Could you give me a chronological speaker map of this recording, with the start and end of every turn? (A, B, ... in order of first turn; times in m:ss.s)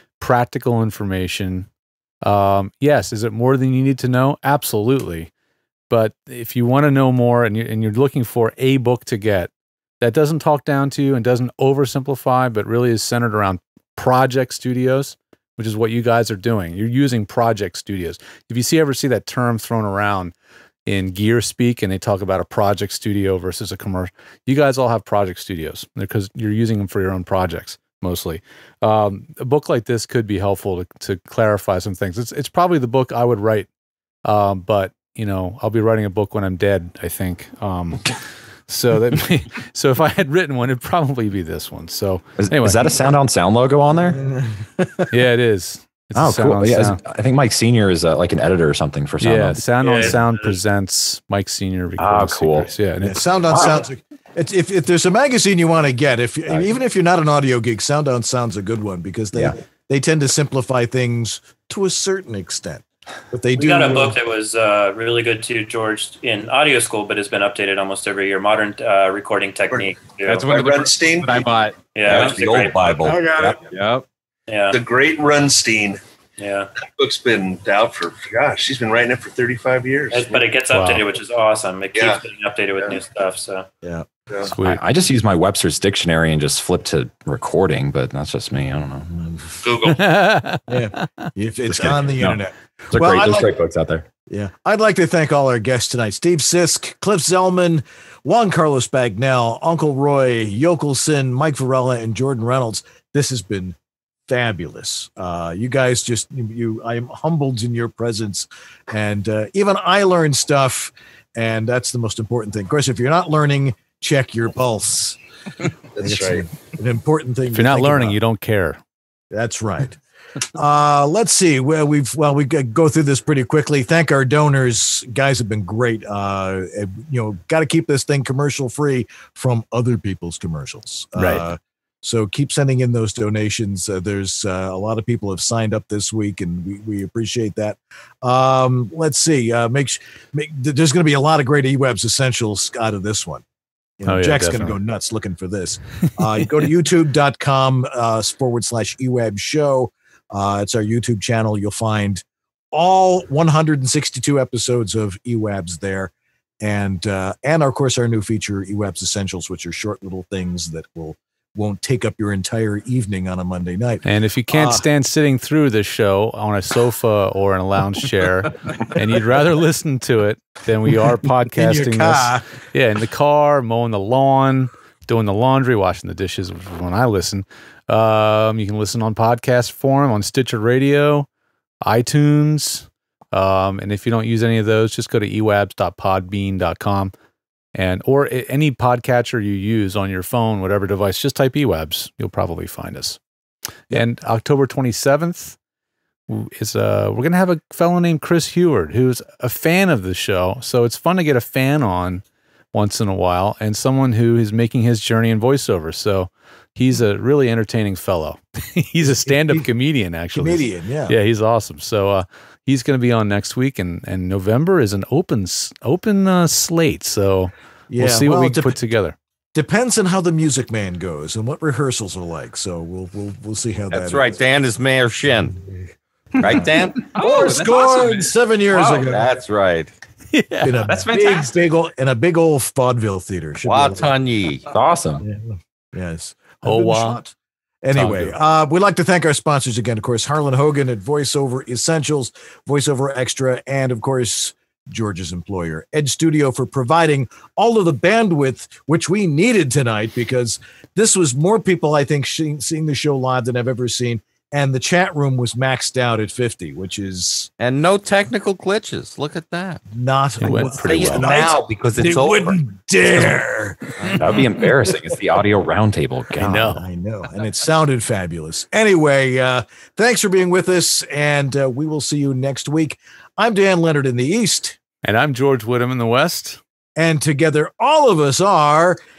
0:00.2-0:01.7 A
0:02.2-0:05.3 A
0:05.9-0:20.3 A
0:20.9-0:33.7 A
0:34.2-0:42.8 A
0:42.4-0:44.2 B
0:44.1-0:45.1 C
0:45.1-0:47.0 A
0:46.2-0:50.1 B
0:49.2-0:53.3 A
0:49.8-0:50.6 D
0:52.0-0:52.7 B
0:53.0-1:04.2 C
1:03.5-1:10.6 D
1:09.7-1:11.5 E
1:10.3-1:12.3 F
1:11.9-1:13.4 D
1:12.0-1:13.4 G
1:13.2-1:13.5 E
1:13.7-1:14.0 F
1:14.5-1:14.8 D
1:14.7-1:16.0 E
1:16.4-1:16.7 D
1:16.8-1:20.4 E
1:20.1-1:23.7 D
1:20.7-1:21.1 A
1:22.0-1:22.2 E
1:23.8-1:24.1 C
1:24.5-1:24.8 A
1:24.6-1:29.3 B
1:29.2-1:29.5 C
1:29.6-1:30.0 E
1:29.8-1:31.3 A
1:30.7-1:33.5 C
1:31.7-1:32.4 B
1:32.9-1:34.1 B
1:34.3-1:43.8 C
1:44.3-1:55.2 C
1:56.0-1:56.5 E
1:56.0-1:58.2 C
1:57.5-1:58.8 A
1:59.3-2:00.0 C
2:00.6-2:23.4 C
2:11.2-2:11.4 A
2:24.0-2:44.8 C
2:24.1-2:24.8 A
2:44.0-3:01.3 A
2:51.5-2:52.4 C
3:01.8-3:07.1 A
3:07.8-3:13.2 A
3:13.9-3:15.6 A
3:16.3-3:22.2 A
3:22.7-3:39.2 A
3:29.0-3:29.7 C
3:30.3-3:31.2 C
3:37.9-3:38.8 C
3:39.5-3:44.3 C
3:43.9-3:45.6 G
3:46.4-3:48.2 G
3:47.1-3:49.3 C
3:48.7-3:49.9 G
3:50.3-3:50.9 A
3:50.6-3:54.1 C
3:50.9-3:51.5 F
3:53.6-3:54.7 G
3:54.7-3:55.2 B
3:55.2-4:17.5 C
3:56.6-3:57.2 A
3:57.9-3:58.4 A
4:17.6-4:19.8 G
4:19.9-4:24.2 C
4:20.4-4:21.3 A
4:20.9-4:22.6 G
4:24.2-4:26.6 B
4:26.4-4:26.8 A
4:26.4-4:34.8 C
4:35.0-4:36.6 A
4:37.0-4:39.0 C